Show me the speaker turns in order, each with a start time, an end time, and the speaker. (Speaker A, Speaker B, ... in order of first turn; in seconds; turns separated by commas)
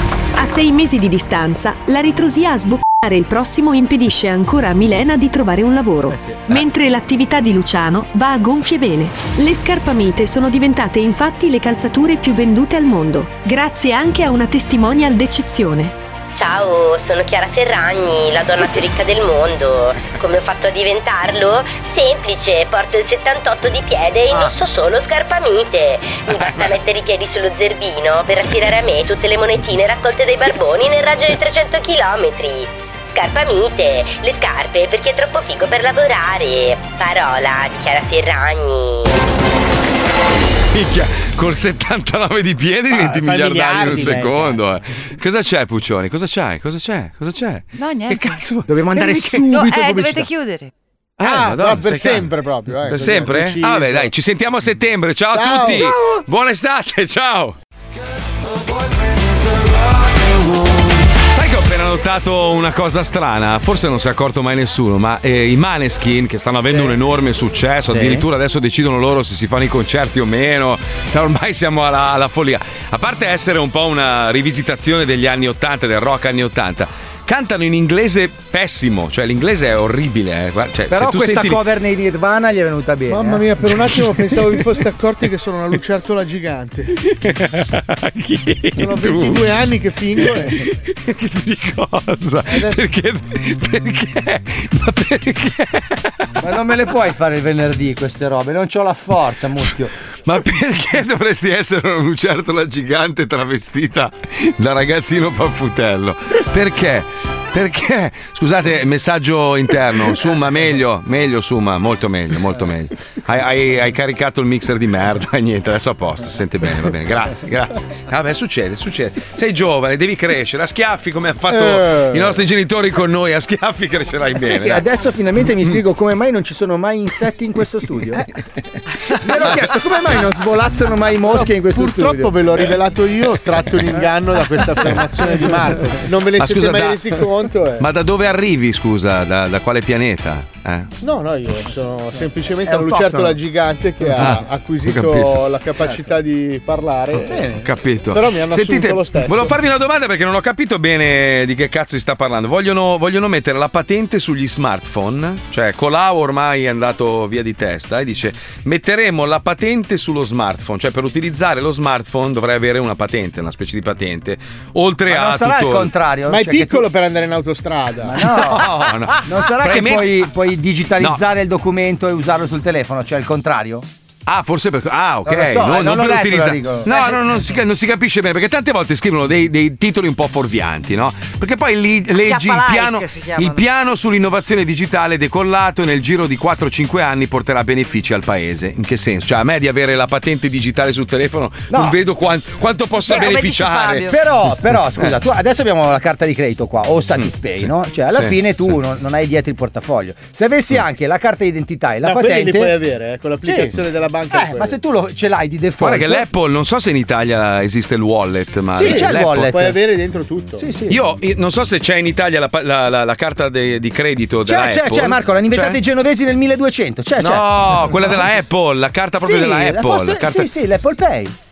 Speaker A: 0.4-15.9, Speaker B: 16.3-39.1, Speaker C: 40.7-49.4, Speaker D: 42.9-44.8, Speaker E: 47.7-48.4, Speaker F: 48.7-50.3, Speaker E: 48.9-50.7, Speaker C: 51.2-52.3, Speaker D: 51.2-54.1, Speaker C: 52.8-57.5, Speaker D: 55.3-55.9, Speaker F: 55.7-56.0, Speaker C: 61.3-81.6, Speaker F: 67.9-68.2, Speaker F: 80.9-83.4, Speaker D: 83.1-87.0, Speaker C: 87.2-89.6, Speaker D: 88.8-90.7, Speaker C: 90.2-96.1, Speaker D: 92.5-92.9, Speaker F: 96.4-99.9, Speaker C: 100.2-124.8, Speaker D: 121.5-122.4, Speaker F: 124.3-128.2, Speaker F: 129.2-132.4, Speaker D: 131.3-137.9, Speaker C: 136.4-137.2, Speaker C: 137.8-140.9, Speaker D: 141.0-147.6, Speaker F: 142.6-143.4, Speaker C: 144.2-145.4, Speaker C: 147.2-165.9, Speaker D: 148.1-149.5, Speaker F: 165.1-166.9, Speaker D: 166.3-168.2, Speaker F: 168.0-173.9, Speaker C: 168.3-170.3, Speaker C: 174.2-194.1, Speaker F: 175.2-177.2, Speaker E: 182.2-183.6, Speaker F: 191.7-192.0, Speaker E: 193.0-194.2, Speaker F: 194.1-202.8, Speaker C: 197.2-198.4, Speaker D: 202.0-204.8, Speaker F: 203.4-203.8, Speaker F: 204.3-206.2, Speaker C: 205.8-209.5, Speaker F: 208.7-209.8, Speaker D: 208.8-210.7, Speaker F: 210.5-211.0, Speaker C: 210.9-215.8, Speaker F: 214.4-218.3, Speaker C: 217.2-220.5, Speaker F: 219.2-221.3